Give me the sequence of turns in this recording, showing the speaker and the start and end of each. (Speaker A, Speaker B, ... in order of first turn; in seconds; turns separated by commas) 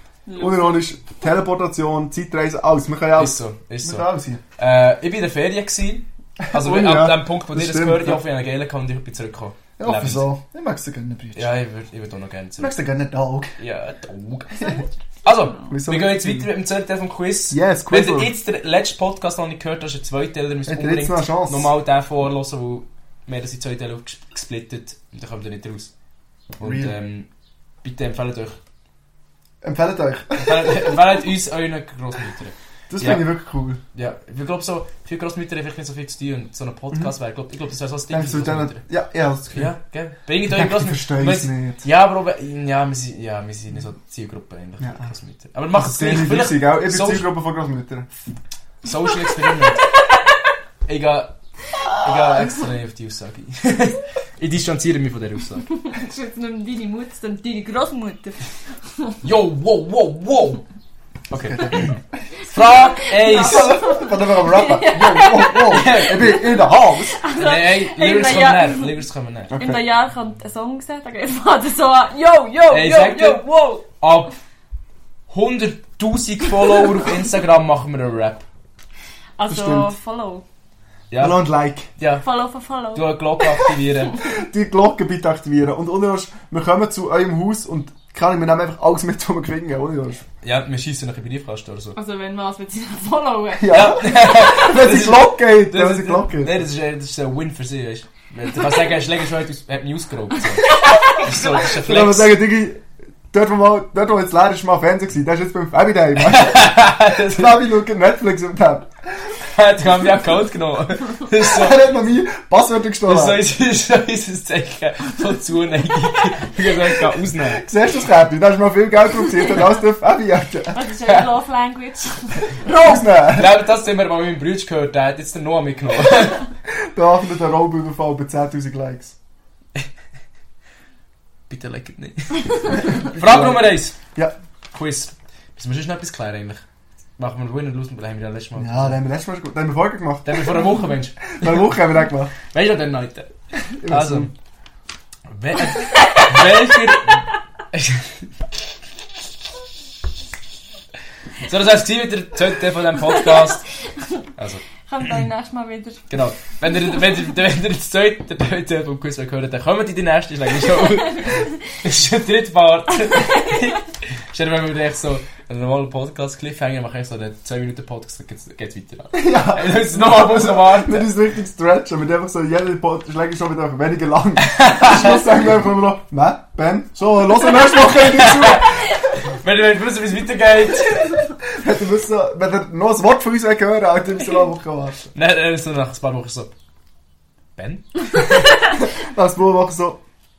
Speaker A: 0.3-0.8, Speaker B: 0.4-4.4, Speaker C: 3.2-10.3, Speaker B: 6.4-8.2, Speaker B: 9.8-11.5, Speaker C: 11.3-12.7, Speaker B: 12.6-13.6, Speaker C: 13.6-25.9, Speaker A: 14.6-15.7, Speaker B: 15.7-16.5, Speaker B: 17.5-18.3, Speaker B: 20.7-21.7, Speaker C: 26.6-27.3, Speaker B: 26.6-26.9, Speaker C: 27.8-28.6, Speaker B: 29.6-31.0, Speaker C: 30.4-33.2, Speaker B: 32.9-33.8, Speaker C: 33.9-38.8, Speaker B: 38.1-39.7, Speaker C: 39.5-47.3, Speaker B: 40.5-41.8, Speaker B: 44.8-45.1, Speaker B: 45.7-48.1, Speaker C: 48.8-49.9, Speaker C: 50.9-51.4, Speaker C: 51.9-55.7, Speaker A: 55.8-59.2, Speaker C: 59.2-60.6, Speaker C: 61.3-63.8, Speaker B: 61.5-61.8, Speaker A: 62.5-69.0, Speaker B: 63.2-67.2, Speaker C: 65.7-66.4, Speaker C: 67.4-69.5, Speaker B: 69.5-69.8, Speaker A: 69.5-73.8, Speaker C: 72.7-73.4, Speaker C: 74.0-74.3, Speaker C: 75.3-78.5, Speaker A: 79.4-80.5, Speaker B: 79.5-79.9, Speaker C: 81.1-82.2, Speaker B: 81.2-81.9, Speaker A: 82.2-83.2, Speaker C: 83.0-84.2, Speaker B: 84.3-90.2, Speaker C: 90.4-92.0, Speaker A: 92.0-94.7, Speaker B: 93.6-96.6, Speaker C: 93.7-102.3, Speaker A: 98.5-99.1, Speaker A: 100.5-101.7, Speaker B: 101.5-109.3, Speaker C: 106.2-107.6, Speaker C: 109.5-111.8, Speaker B: 111.4-113.4, Speaker C: 113.1-117.7, Speaker B: 117.5-120.8, Speaker A: 120.7-122.5, Speaker B: 122.6-123.7, Speaker C: 122.9-126.4, Speaker B: 126.9-129.2, Speaker C: 131.5-134.0, Speaker B: 132.9-134.3, Speaker C: 134.7-136.6, Speaker C: 137.2-139.0, Speaker B: 138.6-140.7, Speaker C: 140.2-141.8, Speaker B: 141.4-142.3, Speaker C: 142.4-143.3, Speaker B: 143.8-144.3, Speaker C: 143.8-144.3, Speaker C: 145.3-148.3, Speaker A: 145.9-146.6, Speaker C: 151.4-153.7, Speaker C: 154.4-154.6, Speaker A: 154.9-156.1, Speaker C: 156.1-171.2, Speaker A: 160.7-161.5, Speaker A: 163.0-163.7, Speaker B: 169.1-178.8, Speaker C: 174.4-175.2, Speaker C: 177.8-181.1, Speaker B: 181.5-185.1, Speaker C: 185.2-186.5, Speaker C: 187.6-188.2, Speaker B: 188.8-190.0